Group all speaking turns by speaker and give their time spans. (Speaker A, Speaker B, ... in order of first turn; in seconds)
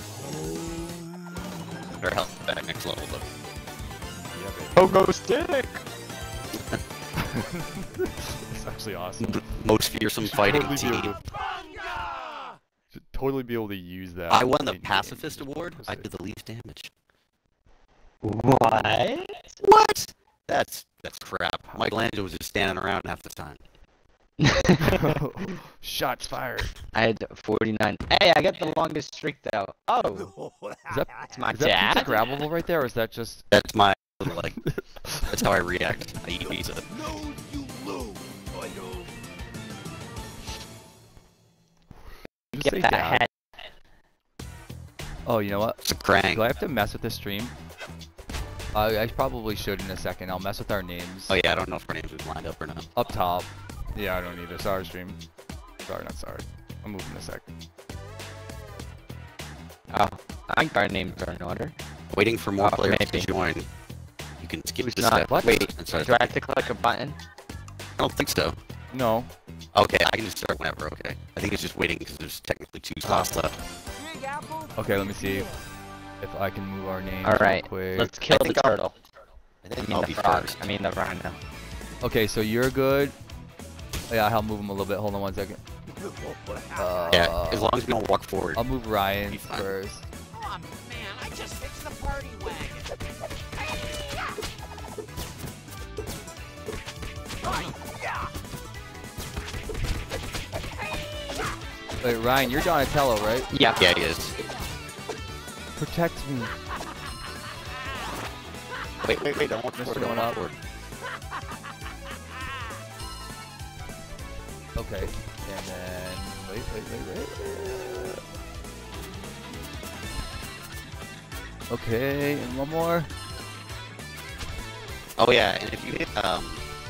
Speaker A: 2.0-3.3, 6.5-6.8, 9.2-11.2, 14.3-16.9, 19.6-23.6, 33.5-34.6, 35.3-36.9, 45.8-46.5, 51.3-52.9, 62.1-63.7, 64.4-66.4, 68.0-68.6, 69.8-73.6, 78.3-78.8, 79.6-80.7, 87.1-88.7, 89.3-89.7, 103.8-104.3, 109.0-110.6, 125.2-126.6
Speaker B: 4.3-4.9, 7.2-9.6, 10.2-11.2, 12.9-16.1, 21.7-22.0, 24.8-26.7, 30.9-33.5, 34.7-35.3, 42.5-43.3, 45.3-47.5, 48.7-51.4, 53.0-55.2, 55.8-57.5, 65.2-65.6, 68.9-69.3, 74.8-75.5, 76.2-78.2, 82.0-83.2, 84.1-85.6, 86.8-87.8, 88.6-90.1, 102.0-103.5, 105.8-106.6, 109.8-110.4, 114.8-118.2, 121.7-123.1
Speaker C: 4.8-5.8, 18.2-19.5, 24.4-25.2, 26.9-30.3, 31.3-32.2, 42.6-43.3, 59.9-61.8, 62.6-63.3, 64.8-67.2, 73.0-73.3, 77.2-78.9, 79.8-81.4, 103.5-103.8
Speaker D: 74.4-74.7, 90.4-92.9